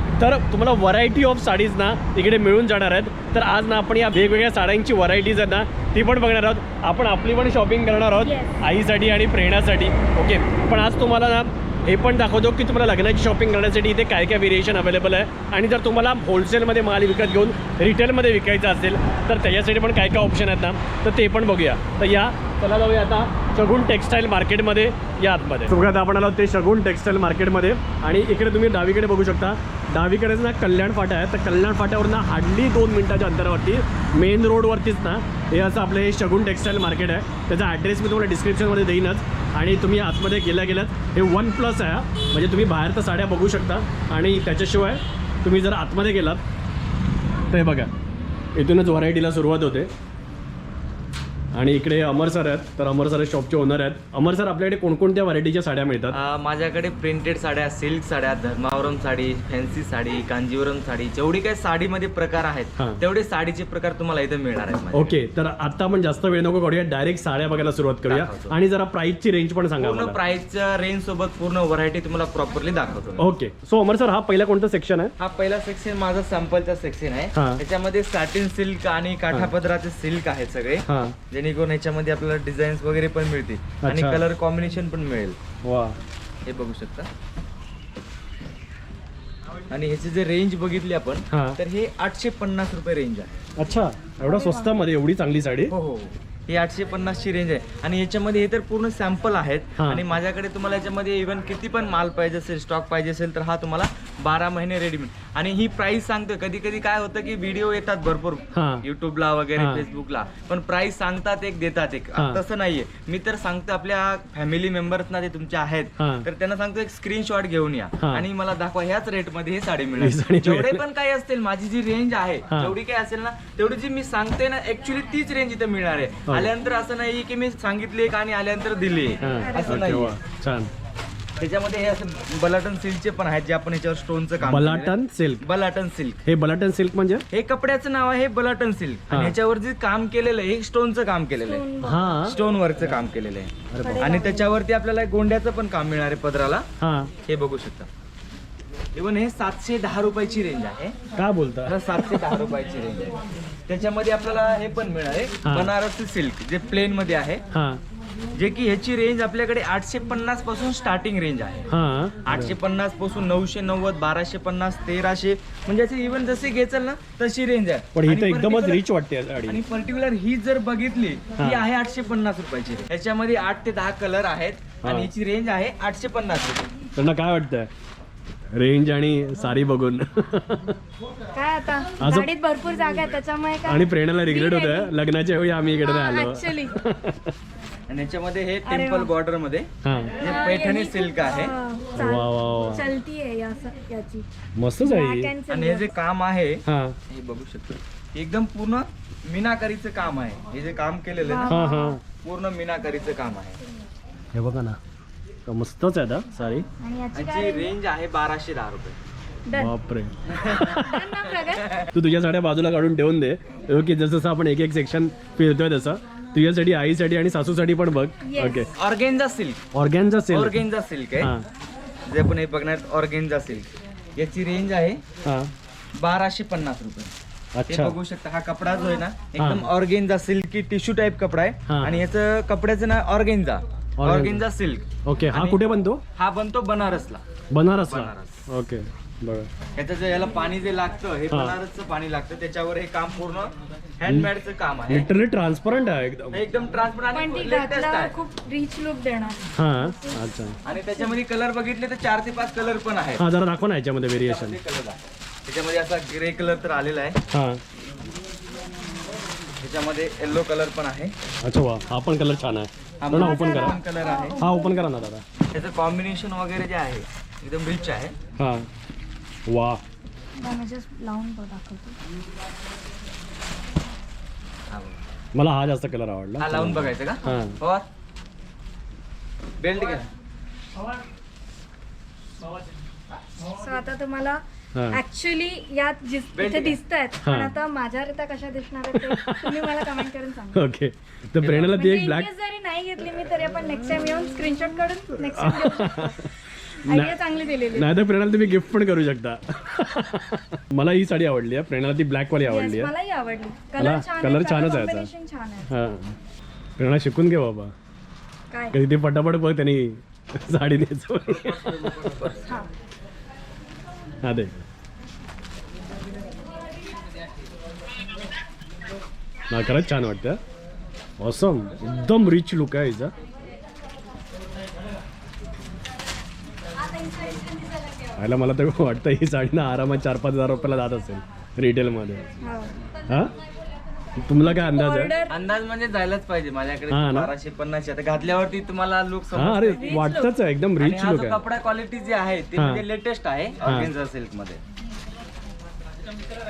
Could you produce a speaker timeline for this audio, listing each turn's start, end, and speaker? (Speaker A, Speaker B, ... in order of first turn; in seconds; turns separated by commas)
Speaker A: 0.2-46.4, Speaker B: 8.2-8.6, Speaker A: 47.5-47.9, Speaker A: 48.5-49.9, Speaker A: 51.5-56.2, Speaker C: 56.1-65.2, Speaker A: 64.9-70.2, Speaker C: 68.0-68.6, Speaker C: 69.8-73.2, Speaker A: 73.2-75.1, Speaker C: 75.2-85.4, Speaker A: 77.3-77.6, Speaker A: 80.9-81.2, Speaker A: 83.8-84.2, Speaker A: 85.6-86.0, Speaker C: 86.5-87.1, Speaker C: 89.7-93.3, Speaker A: 91.3-91.6, Speaker A: 93.6-95.7, Speaker B: 94.3-94.7, Speaker C: 95.7-130.2, Speaker A: 99.8-100.0, Speaker A: 108.5-108.8, Speaker A: 109.6-109.8, Speaker A: 112.2-112.4, Speaker A: 116.0-116.3, Speaker A: 118.0-118.3, Speaker A: 120.0-120.8, Speaker A: 122.5-122.8, Speaker A: 129.2-130.7, Speaker B: 129.2-129.8, Speaker C: 131.4-136.2, Speaker A: 134.4-135.4, Speaker A: 136.2-137.2, Speaker C: 137.3-141.7, Speaker A: 139.1-139.4, Speaker B: 141.4-142.3, Speaker A: 141.8-142.4, Speaker C: 142.2-146.7, Speaker A: 143.7-144.2, Speaker B: 143.8-144.6, Speaker A: 146.8-147.1, Speaker C: 147.3-147.9, Speaker C: 148.9-150.9, Speaker A: 151.2-151.8, Speaker C: 151.7-153.2, Speaker C: 153.7-157.4, Speaker A: 155.4-155.7, Speaker A: 157.5-157.8, Speaker C: 158.3-161.7, Speaker A: 161.7-162.6, Speaker C: 162.2-168.8, Speaker A: 167.9-169.6, Speaker C: 169.5-176.7, Speaker A: 171.4-171.7, Speaker A: 174.8-175.1, Speaker A: 177.0-177.7, Speaker A: 178.6-180.8, Speaker B: 181.3-184.9, Speaker A: 182.0-182.3, Speaker A: 183.7-187.3, Speaker B: 185.8-186.8, Speaker C: 187.9-189.7, Speaker B: 188.7-189.1, Speaker A: 189.8-190.2, Speaker C: 190.2-191.5, Speaker B: 190.2-194.2, Speaker A: 192.0-192.9, Speaker A: 194.6-195.3, Speaker B: 194.8-195.9, Speaker C: 195.5-201.6, Speaker A: 196.7-197.0, Speaker B: 201.2-202.0, Speaker A: 201.5-202.0, Speaker C: 202.2-203.6, Speaker A: 204.3-204.8, Speaker A: 205.5-206.7, Speaker B: 206.8-207.7, Speaker C: 207.1-209.0, Speaker B: 209.5-209.7, Speaker A: 209.5-211.1, Speaker B: 210.8-211.8, Speaker A: 211.9-218.7, Speaker B: 218.2-218.7, Speaker C: 218.8-219.6, Speaker A: 219.7-220.6, Speaker C: 220.3-221.3, Speaker A: 221.2-221.4, Speaker C: 222.1-225.0, Speaker A: 225.2-225.5, Speaker C: 226.0-227.1, Speaker A: 227.6-228.0, Speaker C: 227.7-235.6, Speaker B: 228.7-229.0, Speaker A: 229.4-229.7, Speaker A: 231.7-232.1, Speaker A: 234.0-234.4, Speaker A: 235.0-236.0, Speaker C: 236.2-237.2, Speaker A: 237.5-239.5, Speaker C: 237.8-238.5, Speaker C: 239.8-245.1, Speaker A: 241.3-241.6, Speaker A: 244.9-246.4, Speaker C: 246.3-248.2, Speaker B: 247.1-250.4, Speaker A: 249.6-250.6, Speaker C: 250.7-253.2, Speaker A: 253.2-254.6, Speaker C: 254.2-257.2, Speaker A: 257.3-257.6, Speaker C: 259.6-261.1, Speaker A: 261.4-263.8, Speaker C: 263.0-264.4, Speaker B: 263.1-264.8, Speaker A: 264.4-265.2, Speaker C: 265.5-268.1, Speaker A: 268.4-268.7, Speaker A: 269.5-269.8, Speaker B: 270.4-272.0, Speaker C: 274.7-275.0, Speaker A: 275.3-277.6, Speaker C: 276.4-277.9, Speaker C: 279.6-280.1, Speaker B: 283.5-290.7, Speaker A: 284.7-285.0, Speaker C: 286.4-286.8, Speaker A: 287.2-287.5, Speaker A: 288.9-292.3, Speaker C: 291.4-291.7, Speaker B: 291.6-298.0, Speaker A: 295.4-296.3, Speaker A: 296.9-297.1, Speaker A: 297.7-302.9, Speaker B: 302.4-305.7, Speaker A: 303.8-305.1, Speaker A: 305.7-306.1, Speaker A: 306.8-307.7, Speaker B: 308.5-308.8, Speaker A: 308.7-312.0, Speaker C: 311.4-312.4, Speaker A: 314.2-314.6, Speaker A: 319.5-320.4, Speaker A: 321.2-323.1, Speaker A: 328.2-332.2, Speaker B: 332.4-332.8, Speaker A: 334.2-335.1, Speaker B: 334.4-335.4, Speaker C: 335.3-339.9, Speaker A: 336.9-337.3, Speaker A: 339.3-341.4, Speaker B: 339.8-340.3, Speaker C: 340.8-344.6, Speaker A: 342.6-342.9, Speaker A: 343.6-343.9